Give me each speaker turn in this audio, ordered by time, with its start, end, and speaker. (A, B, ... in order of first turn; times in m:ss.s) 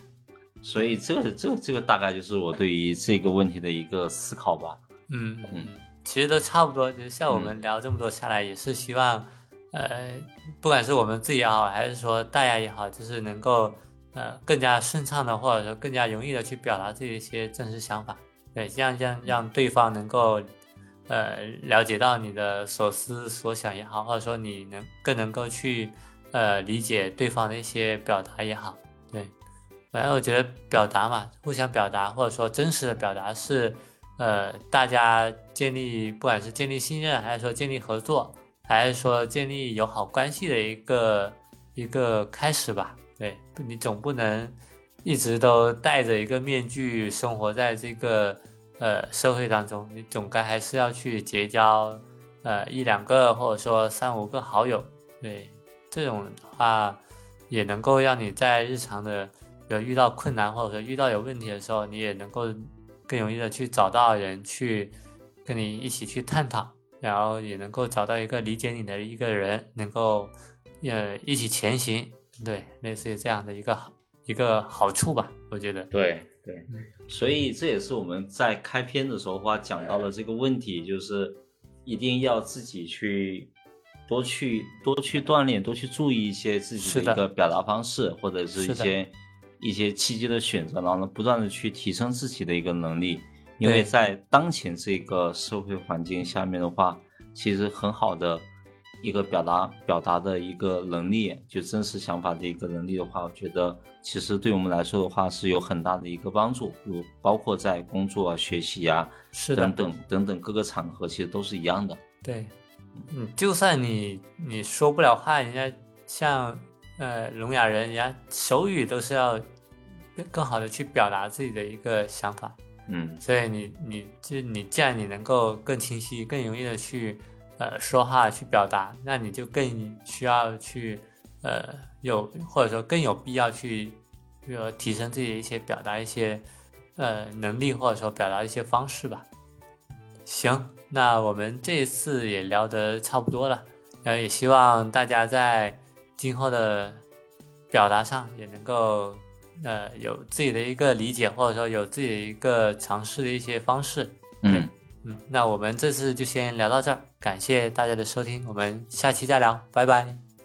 0:00.6-0:04.8 A
0:05.1-0:20.5 B
0:07.3-0:07.6 A
0:21.1-0:29.3 B
0:29.9-1:05.0 B
1:05.5-1:15.9 B
1:15.9-1:23.5 A
1:24.1-1:38.5 A
1:26.8-1:27.2 B
1:28.6-1:28.9 B
1:33.6-1:33.9 B
1:39.0-1:52.0 A
1:49.3-1:49.8 B
1:52.2-1:52.5 B
1:53.1-1:59.4 B
2:00.2-2:02.6 B
2:02.9-2:03.2 A
2:03.2-2:16.4 B
2:17.0-2:19.3 B
2:20.3-2:27.0 B
2:27.7-2:40.2 B
2:34.4-2:34.7 A